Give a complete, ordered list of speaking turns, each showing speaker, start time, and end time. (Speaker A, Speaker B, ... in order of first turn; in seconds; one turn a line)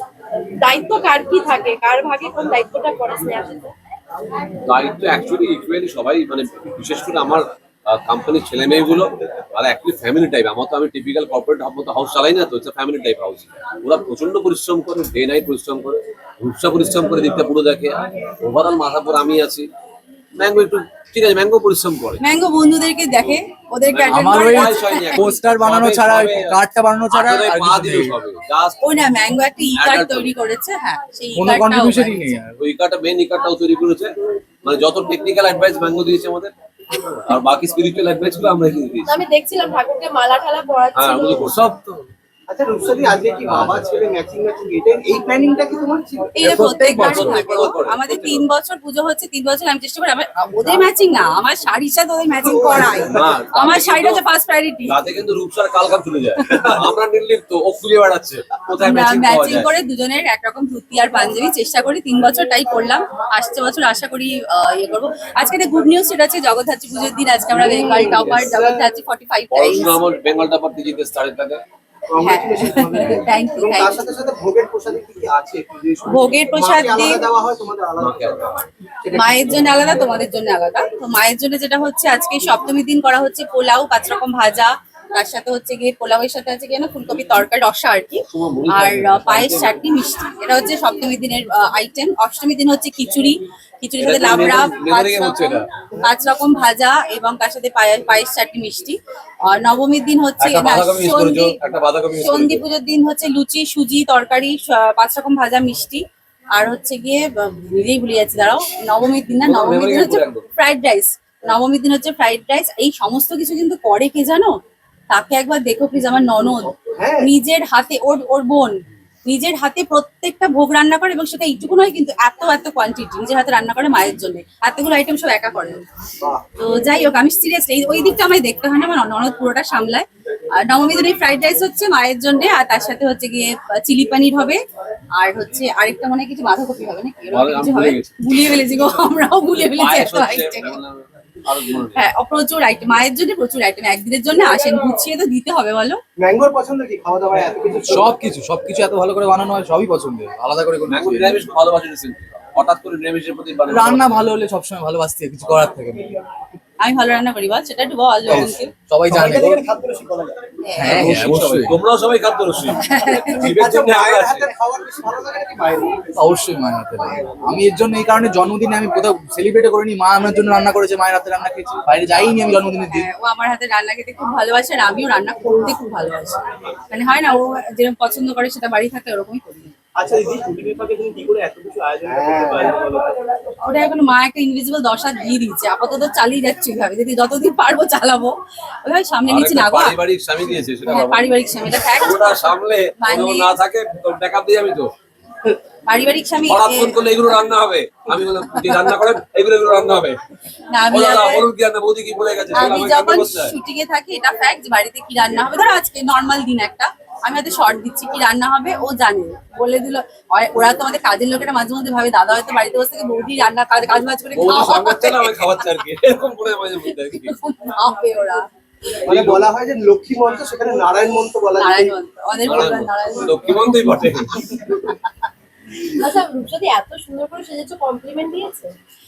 Speaker A: 0.6-3.7
Speaker B: 4.6-19.7
Speaker B: 20.4-22.2
Speaker C: 22.2-25.3
Speaker B: 23.9-26.6
Speaker D: 24.1-28.2
Speaker B: 27.1-28.9
Speaker C: 28.8-32.4
Speaker B: 29.7-30.3
Speaker D: 31.3-32.6
Speaker B: 32.6-34.1
Speaker B: 34.6-39.2
Speaker A: 39.0-41.6
Speaker B: 40.9-42.1
Speaker E: 42.5-46.6
Speaker B: 43.5-44.0
Speaker C: 46.4-55.0
Speaker D: 46.4-47.4
Speaker B: 46.4-48.5
Speaker E: 52.4-53.3
Speaker B: 53.0-54.2
Speaker B: 54.9-59.7
Speaker C: 58.8-70.0
Speaker E: 67.5-68.8
Speaker B: 69.5-71.6
Speaker E: 72.1-79.7
Speaker C: 72.2-74.0
Speaker C: 76.1-77.2
Speaker B: 78.0-78.4
Speaker C: 79.1-101.5
Speaker B: 88.3-89.8
Speaker B: 94.0-95.7
Speaker B: 100.4-102.6
Speaker C: 102.2-106.0
Speaker C: 106.5-114.5
Speaker B: 109.4-110.5
Speaker C: 115.1-125.8
Speaker E: 116.7-117.3
Speaker C: 126.6-134.6
Speaker C: 135.2-140.8
Speaker B: 137.3-139.0
Speaker B: 139.5-142.1
Speaker C: 141.9-146.0
Speaker E: 146.2-148.1
Speaker D: 147.9-151.4
Speaker B: 150.9-154.3
Speaker D: 153.7-156.1
Speaker C: 156.8-158.7
Speaker D: 158.3-159.6
Speaker F: 159.1-160.4
Speaker C: 160.6-161.1
Speaker D: 160.8-161.8
Speaker B: 160.8-164.5
Speaker C: 162.8-163.5
Speaker E: 163.4-166.2
Speaker D: 166.2-173.1
Speaker C: 172.9-179.7
Speaker F: 179.9-183.2
Speaker E: 182.0-182.8
Speaker C: 183.6-190.0
Speaker B: 189.3-194.9
Speaker C: 190.9-193.5
Speaker C: 195.9-197.2
Speaker B: 196.4-200.2
Speaker C: 198.2-198.9
Speaker C: 200.7-201.4
Speaker B: 200.9-203.6
Speaker C: 202.5-215.6
Speaker B: 214.3-217.4
Speaker C: 217.2-218.4
Speaker E: 219.0-221.9
Speaker B: 219.1-219.4
Speaker C: 221.6-224.9
Speaker B: 222.4-224.4
Speaker A: 225.9-228.7